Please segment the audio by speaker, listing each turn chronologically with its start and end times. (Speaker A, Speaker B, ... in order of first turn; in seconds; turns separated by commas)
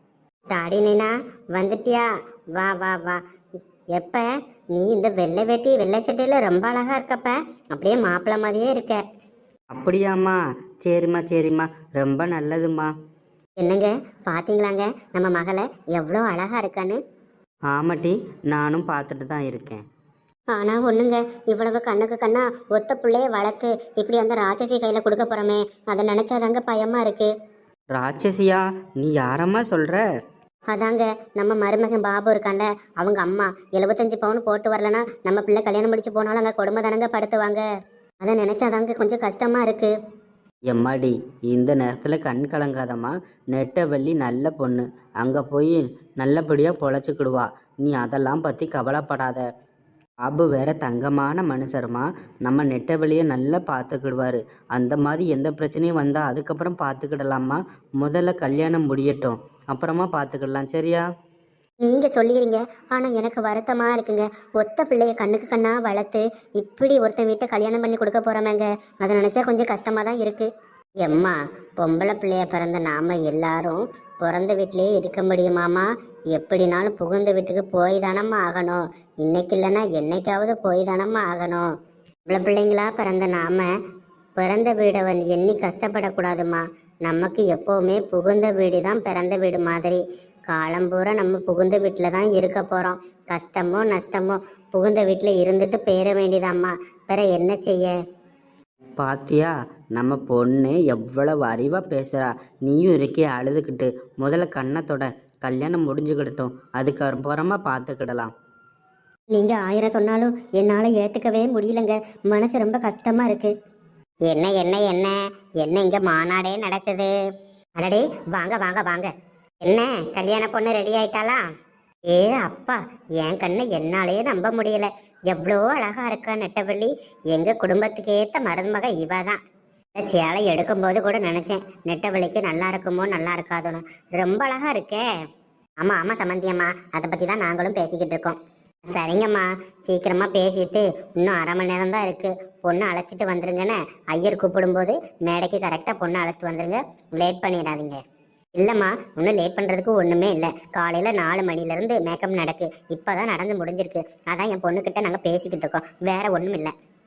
Speaker A: 0.5-3.2, Speaker A: 4.0-9.0, Speaker B: 9.7-12.9, Speaker A: 13.6-17.0, Speaker B: 17.7-19.8, Speaker A: 20.5-27.3, Speaker B: 27.9-30.0, Speaker A: 30.7-37.6, Speaker A: 38.2-39.9, Speaker B: 40.7-49.4, Speaker B: 50.2-61.0, Speaker A: 61.8-70.5, Speaker A: 71.0-81.7, Speaker A: 82.3-83.7, Speaker A: 84.4-97.9, Speaker B: 99.0-108.3, Speaker A: 109.3-113.5, Speaker A: 114.3-117.1, Speaker A: 117.8-119.1, Speaker A: 119.6-121.4, Speaker A: 122.1-129.4, Speaker A: 130.0-135.1, Speaker A: 135.8-138.4, Speaker A: 138.9-148.0, Speaker A: 148.6-156.7